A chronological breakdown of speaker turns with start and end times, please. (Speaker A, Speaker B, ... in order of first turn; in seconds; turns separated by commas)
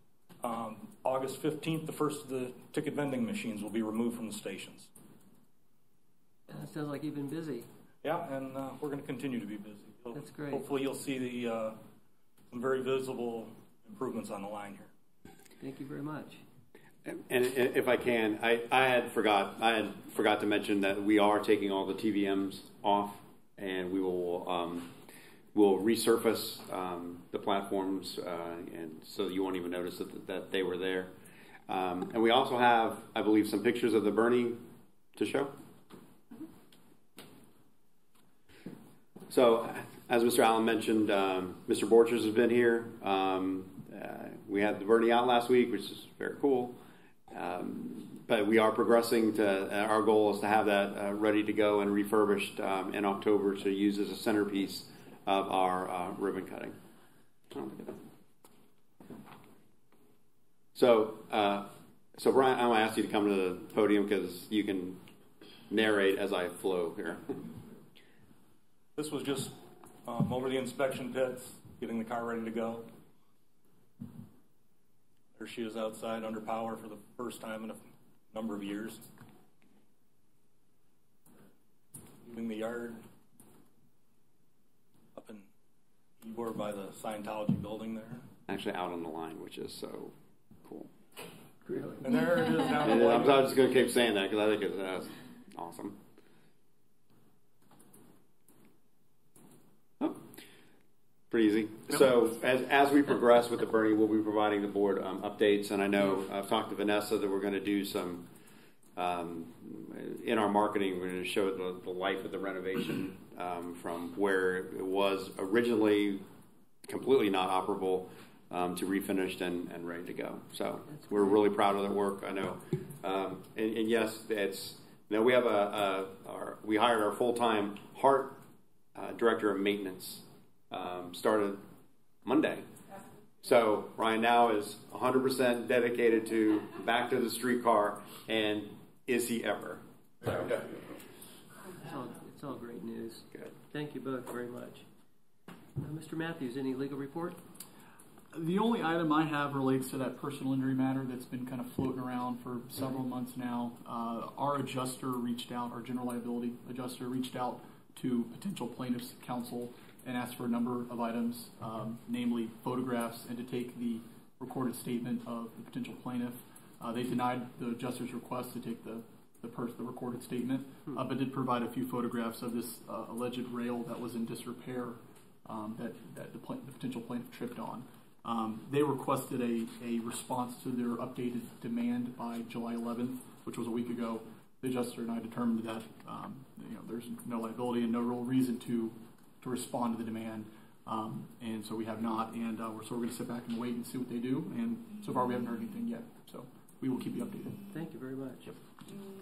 Speaker A: 0.4-4.9, Speaker B: 6.5-7.7, Speaker A: 8.0-11.8, Speaker B: 10.1-10.6, Speaker A: 12.5-14.9, Speaker B: 15.6-16.4, Speaker C: 17.0-24.9, Speaker C: 25.5-31.1, Speaker C: 31.7-34.6, Speaker C: 35.1-35.5, Speaker C: 39.3-46.8, Speaker C: 47.3-56.7, Speaker C: 57.5-58.0, Speaker C: 60.7-65.0, Speaker C: 65.7-67.4, Speaker A: 69.0-72.9, Speaker A: 75.3-79.1, Speaker A: 82.2-83.0, Speaker A: 85.1-85.5, Speaker A: 86.2-88.3, Speaker C: 88.5-90.9, Speaker B: 91.7-92.0, Speaker A: 92.0-93.5, Speaker C: 92.8-96.0, Speaker C: 100.0-100.2, Speaker C: 101.3-108.2, Speaker C: 109.0-116.2, Speaker C: 116.8-128.4, Speaker C: 128.9-131.6, Speaker C: 132.2-132.7, Speaker C: 133.4-140.7, Speaker B: 141.8-144.8, Speaker B: 145.8-147.4, Speaker D: 148.3-197.6, Speaker B: 197.7-198.6